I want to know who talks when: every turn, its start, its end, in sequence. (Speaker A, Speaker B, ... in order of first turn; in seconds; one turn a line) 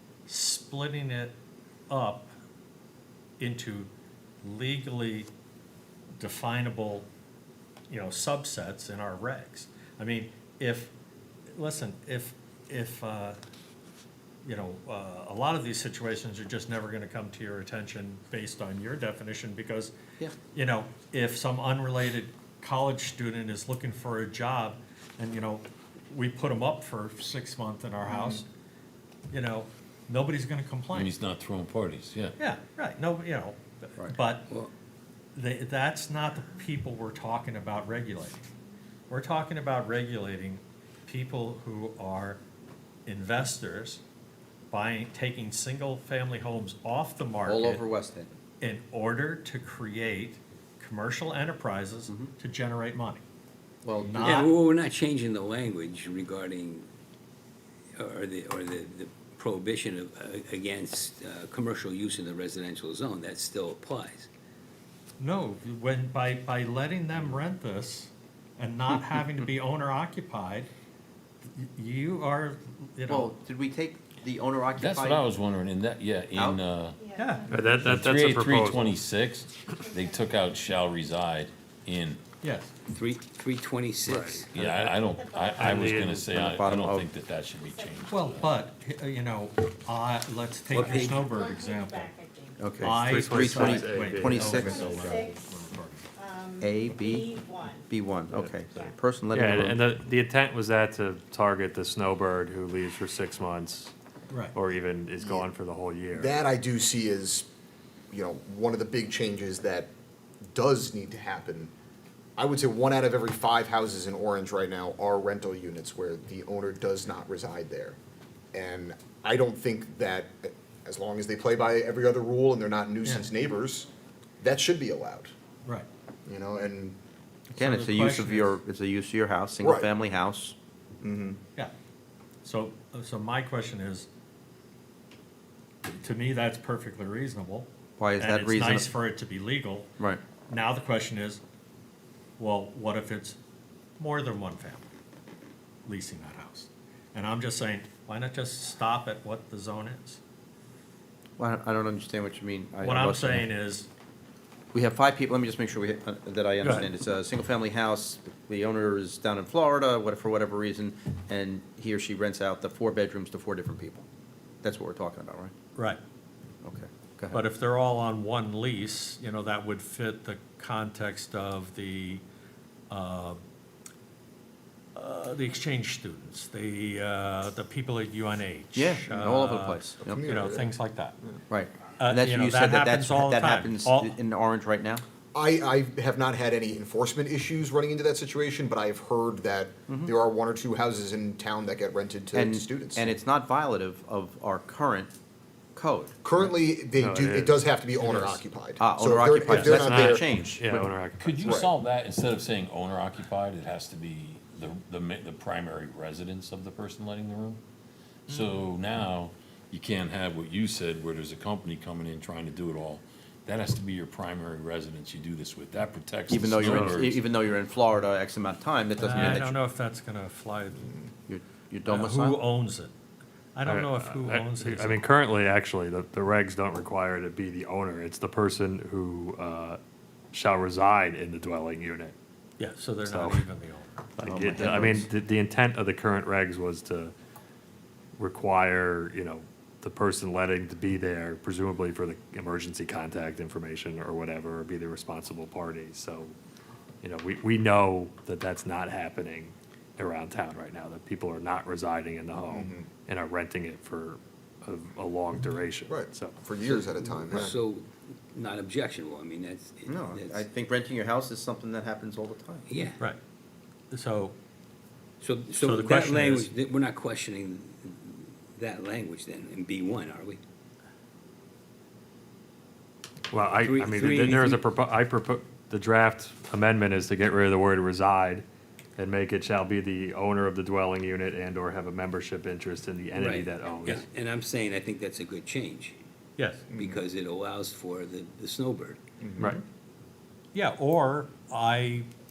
Speaker A: 0.3-1.3
Speaker A: 1.9-2.3
Speaker A: 3.4-3.9
Speaker A: 4.4-5.3
Speaker A: 6.2-7.1
Speaker A: 7.9-10.9
Speaker A: 11.5-13.4
Speaker A: 14.4-19.9
Speaker A: 20.5-28.5
Speaker B: 28.1-28.4
Speaker A: 29.3-31.1
Speaker C: 30.9-32.3
Speaker A: 32.4-34.5
Speaker A: 35.3-38.4
Speaker A: 39.1-42.4
Speaker A: 43.0-44.0
Speaker A: 44.7-47.8
Speaker D: 47.5-48.3
Speaker A: 48.6-53.2
Speaker D: 53.8-54.3
Speaker A: 54.0-54.5
Speaker E: 54.2-56.9
Speaker E: 58.0-64.3
Speaker A: 65.2-70.7
Speaker A: 71.4-73.3
Speaker D: 73.1-75.2
Speaker C: 74.8-77.0
Speaker D: 76.3-76.6
Speaker F: 77.0-77.9
Speaker A: 77.1-77.5
Speaker G: 77.5-78.9
Speaker C: 77.8-82.2
Speaker F: 79.7-80.5
Speaker A: 82.4-82.7
Speaker E: 82.9-84.7
Speaker G: 84.0-85.0
Speaker C: 84.5-88.5
Speaker F: 85.0-86.1
Speaker G: 85.5-86.2
Speaker D: 86.3-87.1
Speaker F: 87.6-88.6
Speaker A: 88.1-92.2
Speaker E: 90.7-91.2
Speaker F: 90.7-93.0
Speaker D: 92.6-95.2
Speaker A: 92.8-96.0
Speaker G: 93.0-94.5
Speaker F: 93.6-95.6
Speaker F: 96.2-98.9
Speaker D: 96.6-99.8
Speaker G: 99.3-103.9
Speaker G: 104.5-106.3
Speaker B: 105.2-105.5
Speaker B: 106.1-107.5
Speaker B: 108.1-109.9
Speaker B: 110.5-111.7
Speaker B: 112.4-118.0
Speaker B: 118.5-123.9
Speaker B: 124.4-125.3
Speaker B: 126.2-127.0
Speaker A: 127.5-128.6
Speaker D: 127.5-130.6
Speaker B: 129.6-129.9
Speaker B: 131.0-131.4
Speaker A: 132.4-134.1
Speaker A: 136.0-139.9
Speaker D: 138.0-138.9
Speaker A: 140.5-141.4
Speaker A: 142.4-143.4
Speaker A: 144.0-144.9
Speaker A: 145.8-150.2
Speaker D: 151.4-153.5
Speaker A: 152.8-153.9
Speaker D: 154.7-164.1
Speaker A: 156.6-156.9
Speaker D: 164.6-165.5
Speaker D: 166.6-167.4
Speaker A: 167.3-172.2
Speaker A: 172.9-173.4
Speaker A: 174.9-181.2
Speaker D: 178.8-180.2
Speaker B: 180.0-180.7
Speaker D: 181.5-185.0
Speaker A: 182.0-184.2
Speaker B: 185.3-193.2
Speaker D: 192.3-195.1
Speaker D: 195.8-196.5
Speaker B: 196.2-200.3
Speaker G: 197.0-198.3
Speaker D: 198.0-198.3
Speaker D: 198.8-200.9
Speaker G: 199.5-201.6
Speaker C: 201.2-207.6
Speaker B: 201.4-201.7
Speaker C: 208.3-217.2
Speaker D: 216.3-219.6
Speaker A: 219.0-220.9
Speaker D: 221.3-222.4
Speaker A: 221.9-222.9
Speaker A: 223.6-225.0
Speaker G: 223.7-229.8
Speaker G: 230.3-232.1
Speaker A: 232.6-234.1
Speaker G: 233.1-233.4
Speaker G: 234.2-237.1
Speaker D: 234.2-235.1
Speaker G: 238.2-246.3
Speaker G: 247.0-256.6
Speaker B: 252.5-252.8
Speaker B: 255.8-257.6
Speaker E: 256.7-260.4
Speaker D: 259.9-262.6
Speaker E: 262.7-263.0
Speaker A: 263.9-264.3
Speaker E: 265.2-270.4
Speaker A: 265.6-266.5
Speaker G: 273.3-278.4
Speaker E: 273.6-274.6
Speaker G: 279.0-284.1
Speaker E: 283.1-286.0
Speaker A: 286.4-286.7
Speaker B: 286.7-287.0
Speaker E: 286.7-289.0
Speaker B: 289.2-289.5
Speaker A: 290.5-292.1